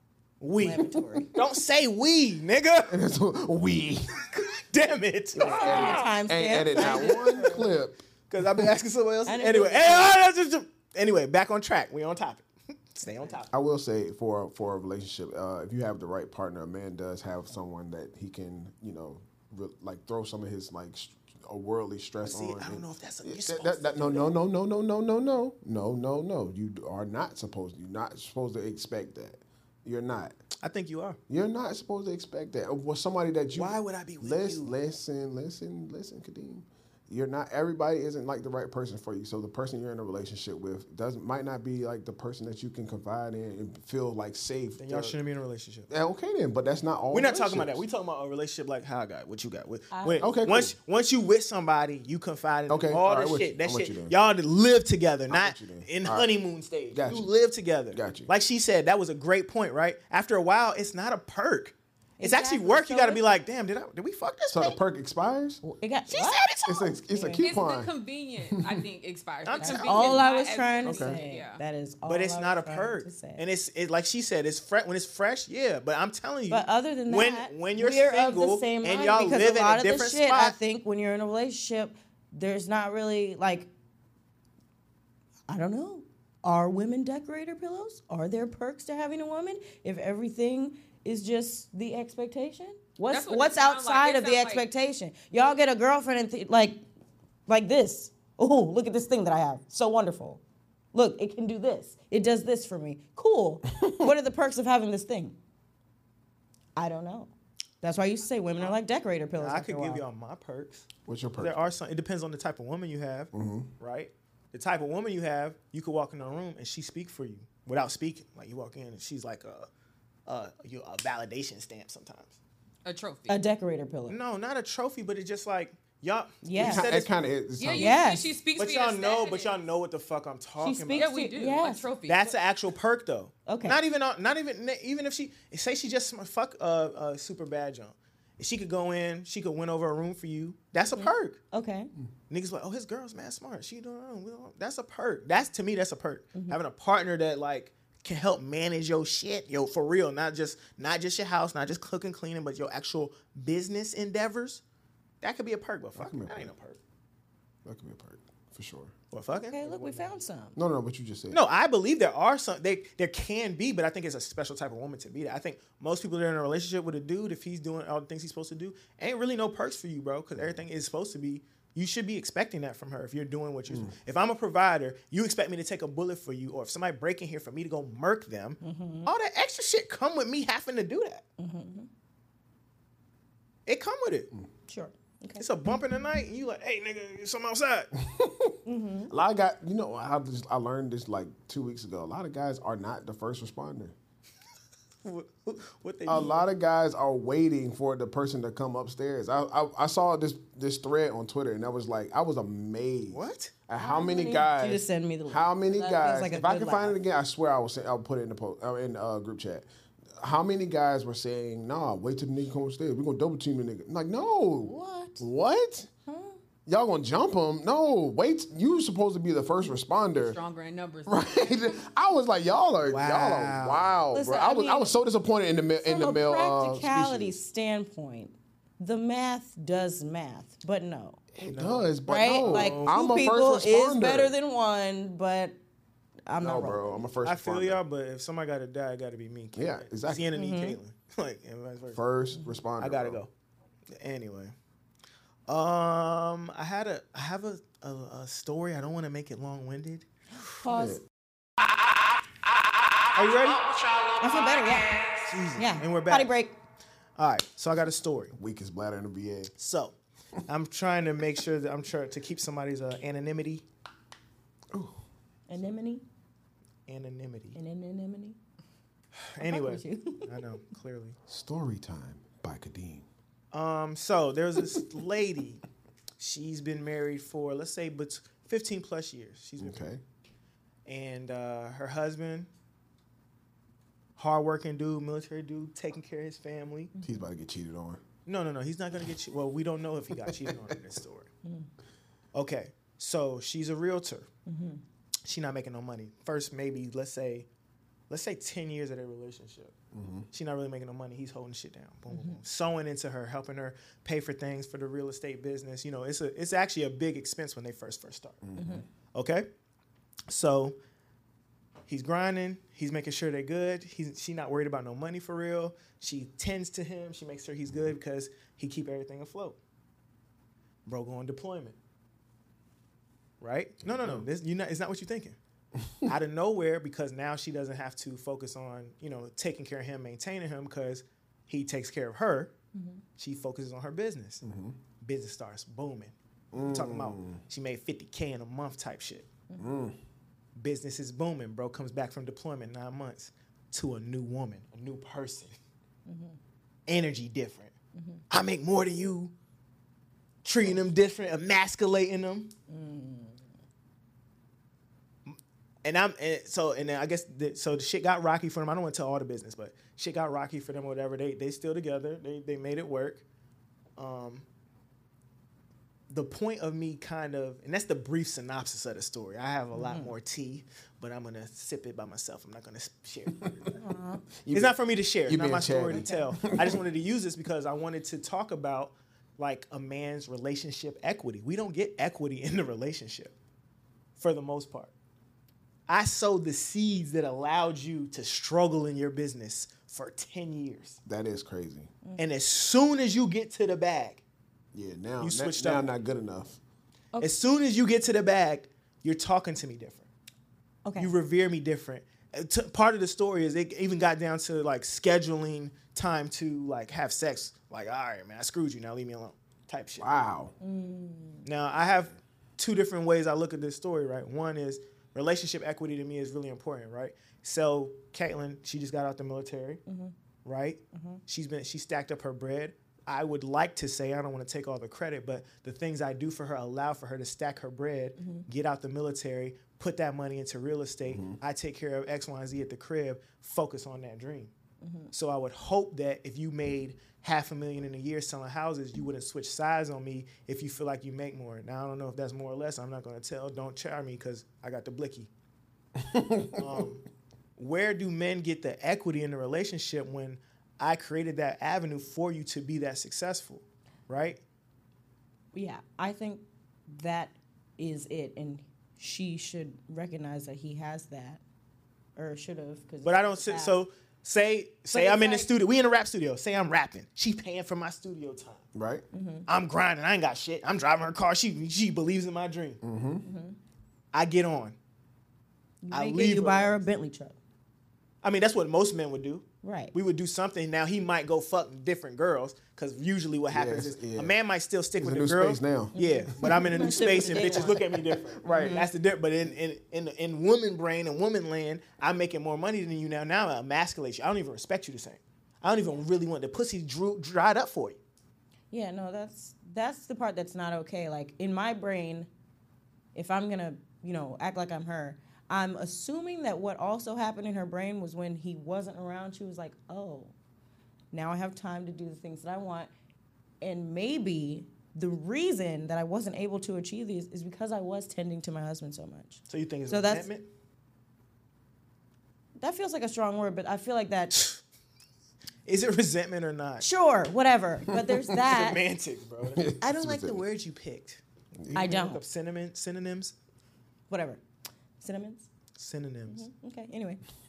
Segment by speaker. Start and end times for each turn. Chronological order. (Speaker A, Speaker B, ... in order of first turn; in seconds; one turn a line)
Speaker A: 0.4-3.0
Speaker B: 0.6-1.3
Speaker C: 2.9-4.4
Speaker A: 4.7-6.0
Speaker C: 5.3-8.6
Speaker B: 5.4-7.7
Speaker A: 6.7-7.6
Speaker A: 8.3-13.5
Speaker B: 9.2-10.2
Speaker C: 13.5-30.4
Speaker A: 22.2-24.3
Speaker A: 30.6-31.2
Speaker C: 31.3-45.1
Speaker A: 33.5-34.7
Speaker A: 44.8-45.9
Speaker C: 45.9-47.8
Speaker A: 47.1-64.8
Speaker B: 49.9-50.3
Speaker C: 50.2-50.7
Speaker C: 52.7-54.1
Speaker C: 55.3-56.3
Speaker C: 56.9-57.3
Speaker C: 57.9-58.3
Speaker B: 62.2-63.2
Speaker C: 64.5-65.6
Speaker B: 65.6-66.5
Speaker A: 66.1-67.0
Speaker C: 66.7-67.9
Speaker B: 67.1-67.4
Speaker D: 67.4-71.6
Speaker C: 68.5-68.8
Speaker A: 69.4-70.2
Speaker B: 69.6-73.4
Speaker C: 70.8-71.2
Speaker A: 72.0-80.5
Speaker B: 76.5-83.7
Speaker B: 85.5-96.8
Speaker D: 93.1-94.7
Speaker B: 97.5-100.4
Speaker B: 100.9-105.4
Speaker B: 106.8-107.3
Speaker B: 107.8-110.0
Speaker A: 109.4-110.8
Speaker C: 111.0-111.6
Speaker A: 111.4-119.7
Speaker C: 113.3-113.7
Speaker A: 120.3-122.4
Speaker D: 122.8-123.4
Speaker B: 123.3-124.2
Speaker A: 124.1-127.1
Speaker B: 126.4-126.9
Speaker C: 126.5-128.1
Speaker D: 127.6-129.5
Speaker B: 127.8-128.3
Speaker A: 128.6-131.1
Speaker B: 130.6-131.9
Speaker D: 130.9-132.3
Speaker A: 132.1-141.4
Speaker B: 133.5-133.8
Speaker B: 140.9-141.9
Speaker A: 142.3-154.6
Speaker A: 155.2-156.8
Speaker C: 155.9-156.5
Speaker C: 157.6-158.9
Speaker A: 159.1-160.2
Speaker B: 159.3-160.6
Speaker C: 160.6-161.4
Speaker A: 161.3-181.2
Speaker C: 170.3-170.6
Speaker C: 173.7-173.9
Speaker B: 178.6-179.1
Speaker B: 181.4-181.9
Speaker A: 183.7-184.3
Speaker B: 184.7-185.4
Speaker A: 185.4-187.9
Speaker C: 188.0-193.9
Speaker B: 188.6-189.1
Speaker A: 195.0-196.4
Speaker C: 196.1-215.9
Speaker A: 203.1-203.5
Speaker B: 203.8-207.0
Speaker B: 214.6-215.2
Speaker B: 216.1-216.3
Speaker C: 216.7-220.4
Speaker D: 220.2-221.8
Speaker C: 221.1-227.4
Speaker A: 222.8-223.9
Speaker B: 224.1-224.9
Speaker B: 225.8-231.2
Speaker C: 231.3-234.3
Speaker A: 231.4-232.9
Speaker B: 232.1-235.6
Speaker B: 236.3-236.9
Speaker C: 236.4-237.8
Speaker A: 237.2-242.0
Speaker C: 239.5-240.3
Speaker B: 240.3-240.8
Speaker C: 241.9-243.2
Speaker A: 242.8-243.3
Speaker A: 243.9-244.5
Speaker A: 245.5-250.1
Speaker B: 250.6-251.0
Speaker C: 250.7-251.0
Speaker A: 253.1-253.7
Speaker B: 254.2-256.6
Speaker A: 255.2-256.3
Speaker A: 257.2-258.3
Speaker C: 258.3-259.5
Speaker A: 259.6-259.9
Speaker A: 260.5-263.6
Speaker B: 265.5-266.0
Speaker A: 266.9-267.6
Speaker B: 267.6-268.4
Speaker A: 269.2-271.1
Speaker B: 269.4-270.3
Speaker C: 271.3-273.1
Speaker A: 273.5-275.6
Speaker A: 276.2-279.9
Speaker C: 279.6-280.0
Speaker A: 280.9-282.5
Speaker A: 284.2-286.9
Speaker C: 287.0-288.0
Speaker A: 288.2-291.3
Speaker A: 292.3-294.3
Speaker B: 294.5-294.8
Speaker A: 295.2-297.5
Speaker A: 298.1-299.7
Speaker C: 299.9-300.3
Speaker A: 300.3-308.4
Speaker B: 302.1-302.4
Speaker C: 308.4-308.8
Speaker B: 308.6-308.8
Speaker A: 309.1-309.5
Speaker A: 310.3-310.8
Speaker A: 311.9-319.6
Speaker A: 320.9-321.8
Speaker A: 323.4-325.4
Speaker C: 323.8-324.2
Speaker A: 326.0-332.5
Speaker B: 332.7-333.0
Speaker A: 333.2-334.4
Speaker C: 334.4-334.8
Speaker A: 335.0-339.3
Speaker C: 336.5-337.4
Speaker C: 339.6-340.0
Speaker A: 340.6-345.5
Speaker B: 346.1-346.4
Speaker A: 346.9-347.7
Speaker A: 348.3-349.3
Speaker A: 350.4-352.5
Speaker B: 352.7-353.4
Speaker A: 355.3-363.2
Speaker A: 364.0-364.4
Speaker A: 366.1-373.7
Speaker B: 369.7-370.1
Speaker B: 373.7-374.2
Speaker C: 374.4-376.8
Speaker A: 374.5-383.3
Speaker B: 375.9-376.2
Speaker A: 384.2-384.9
Speaker A: 385.9-391.0
Speaker C: 391.0-391.9
Speaker A: 392.2-394.2
Speaker C: 394.7-396.6
Speaker A: 395.2-395.9
Speaker A: 397.2-400.1
Speaker B: 400.8-401.1
Speaker A: 401.0-410.1
Speaker C: 410.0-410.5
Speaker B: 410.6-411.5
Speaker A: 411.4-419.8
Speaker B: 419.9-420.1
Speaker A: 420.4-434.5
Speaker B: 420.9-421.2
Speaker B: 428.2-428.4
Speaker C: 431.1-431.4
Speaker B: 434.8-435.1
Speaker A: 435.1-445.3
Speaker C: 446.0-446.6
Speaker A: 446.6-447.0
Speaker A: 447.6-454.4
Speaker B: 455.5-461.4
Speaker B: 462.1-463.8
Speaker A: 463.0-468.6
Speaker B: 464.9-465.5
Speaker C: 468.7-469.0
Speaker B: 469.1-469.5
Speaker A: 469.5-472.8
Speaker C: 472.8-473.2
Speaker B: 473.2-473.6
Speaker A: 474.1-474.8
Speaker B: 475.8-477.4
Speaker A: 475.9-476.8
Speaker A: 478.2-498.0
Speaker B: 479.6-479.9
Speaker C: 483.5-484.3
Speaker C: 485.0-488.8
Speaker B: 485.9-488.9
Speaker B: 498.7-502.3
Speaker B: 503.1-510.3
Speaker B: 511.1-512.9
Speaker B: 513.6-520.3
Speaker A: 519.5-520.5
Speaker B: 522.6-524.4
Speaker A: 524.3-524.6
Speaker A: 525.6-526.9
Speaker B: 526.8-528.8
Speaker C: 527.9-528.2
Speaker A: 528.4-533.3
Speaker C: 529.5-530.4
Speaker C: 531.6-531.9
Speaker B: 531.7-532.2
Speaker B: 534.1-534.4
Speaker B: 535.0-535.5
Speaker A: 535.8-536.5
Speaker B: 536.3-537.2